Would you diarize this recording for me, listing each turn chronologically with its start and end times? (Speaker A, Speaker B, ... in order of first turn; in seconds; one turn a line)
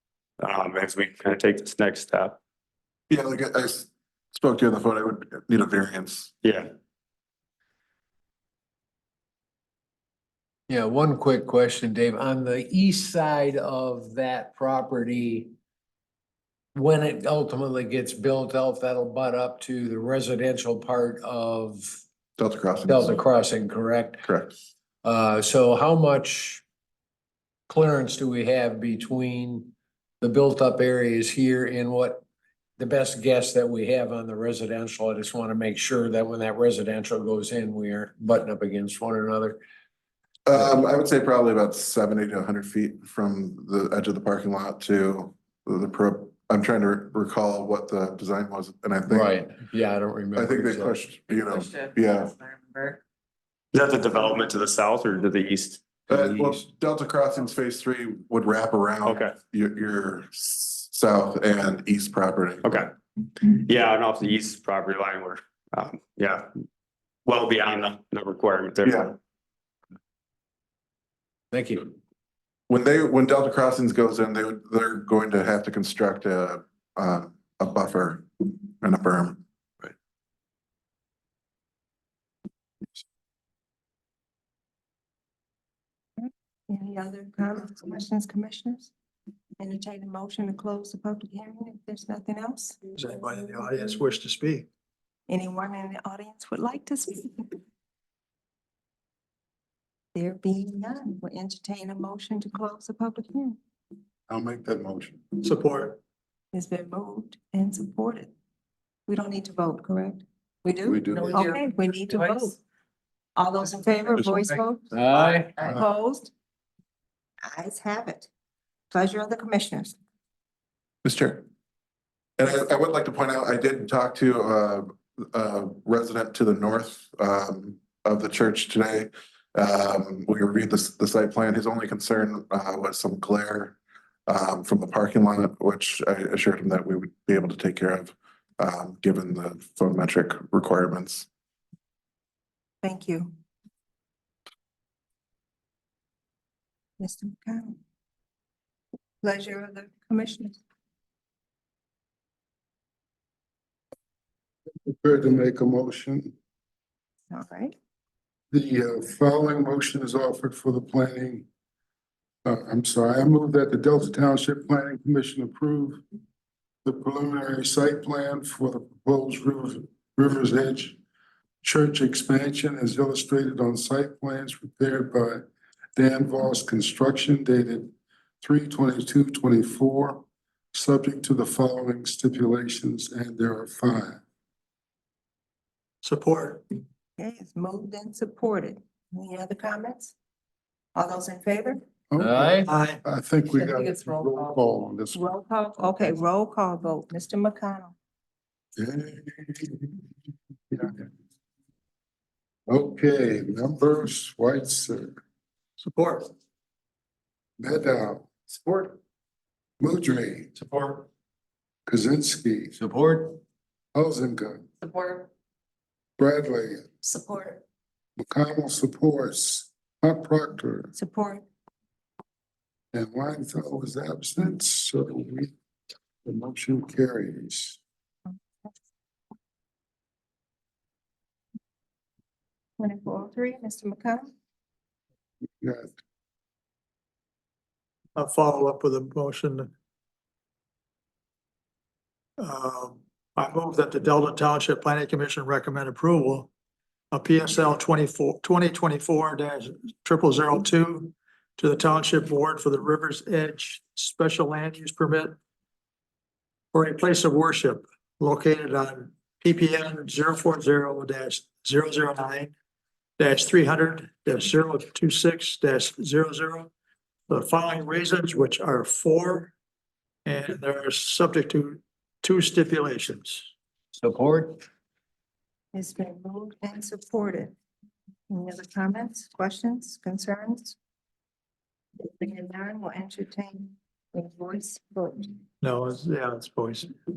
Speaker A: 0.4-2.4
Speaker B: 3.1-6.3
Speaker A: 6.4-6.7
Speaker C: 10.7-15.5
Speaker C: 16.7-22.0
Speaker B: 22.4-23.2
Speaker C: 22.9-24.3
Speaker B: 24.2-24.5
Speaker C: 25.0-26.6
Speaker C: 27.7-32.2
Speaker C: 32.8-39.6
Speaker B: 40.5-49.4
Speaker C: 49.1-51.0
Speaker B: 50.3-52.3
Speaker D: 51.3-53.0
Speaker A: 53.7-55.8
Speaker B: 56.1-62.8
Speaker C: 56.1-56.6
Speaker A: 59.0-59.4
Speaker A: 62.6-66.5
Speaker A: 67.3-69.1
Speaker B: 68.8-69.2
Speaker C: 71.5-71.9
Speaker B: 72.7-79.4
Speaker E: 86.2-88.9
Speaker E: 89.6-92.8
Speaker F: 93.0-94.7
Speaker E: 95.3-97.5
Speaker E: 100.2-103.6
Speaker G: 104.3-105.2
Speaker F: 105.4-106.0
Speaker E: 106.5-108.3
Speaker E: 109.1-110.2
Speaker D: 110.7-112.5
Speaker G: 110.8-111.4
Speaker E: 111.3-112.6
Speaker E: 113.4-114.9
Speaker C: 114.9-115.5
Speaker D: 115.1-115.8
Speaker E: 115.7-116.3
Speaker E: 117.5-118.3
Speaker E: 118.9-120.0
Speaker B: 121.0-121.5
Speaker B: 122.4-141.3
Speaker E: 142.8-143.3
Speaker E: 147.0-147.8
Speaker E: 149.2-150.6
Speaker G: 154.8-156.3
Speaker E: 157.3-157.8
Speaker G: 158.5-161.4
Speaker G: 162.4-166.0
Speaker G: 166.8-171.0
Speaker G: 171.6-184.2
Speaker F: 186.0-186.6
Speaker E: 187.2-190.1
Speaker E: 190.9-191.8
Speaker G: 192.1-195.2
Speaker C: 192.2-192.7
Speaker F: 192.7-193.0
Speaker E: 193.6-193.9
Speaker D: 194.2-194.6
Speaker E: 195.1-197.9
Speaker G: 198.8-199.9
Speaker G: 200.7-201.0
Speaker G: 202.7-205.2
Speaker F: 205.8-206.3
Speaker G: 207.6-208.3
Speaker G: 209.8-210.5
Speaker F: 210.6-211.0
Speaker G: 211.9-212.8
Speaker C: 212.8-213.4
Speaker G: 213.9-214.7
Speaker D: 214.8-215.3
Speaker G: 216.2-216.9
Speaker D: 217.1-217.6
Speaker G: 218.2-220.9
Speaker E: 220.9-221.4
Speaker G: 222.9-225.5
Speaker G: 226.2-227.8
Speaker E: 228.3-228.7
Speaker E: 232.8-234.2
Speaker G: 235.6-235.9
Speaker F: 238.2-239.7
Speaker F: 242.4-246.5
Speaker F: 247.1-255.4
Speaker F: 256.7-262.5
Speaker F: 263.2-266.7
Speaker F: 267.3-269.5
Speaker F: 270.2-273.5
Speaker C: 274.0-274.6
Speaker E: 275.7-277.5
Speaker E: 278.3-280.8
Speaker E: 282.0-285.3
Speaker F: 285.6-286.9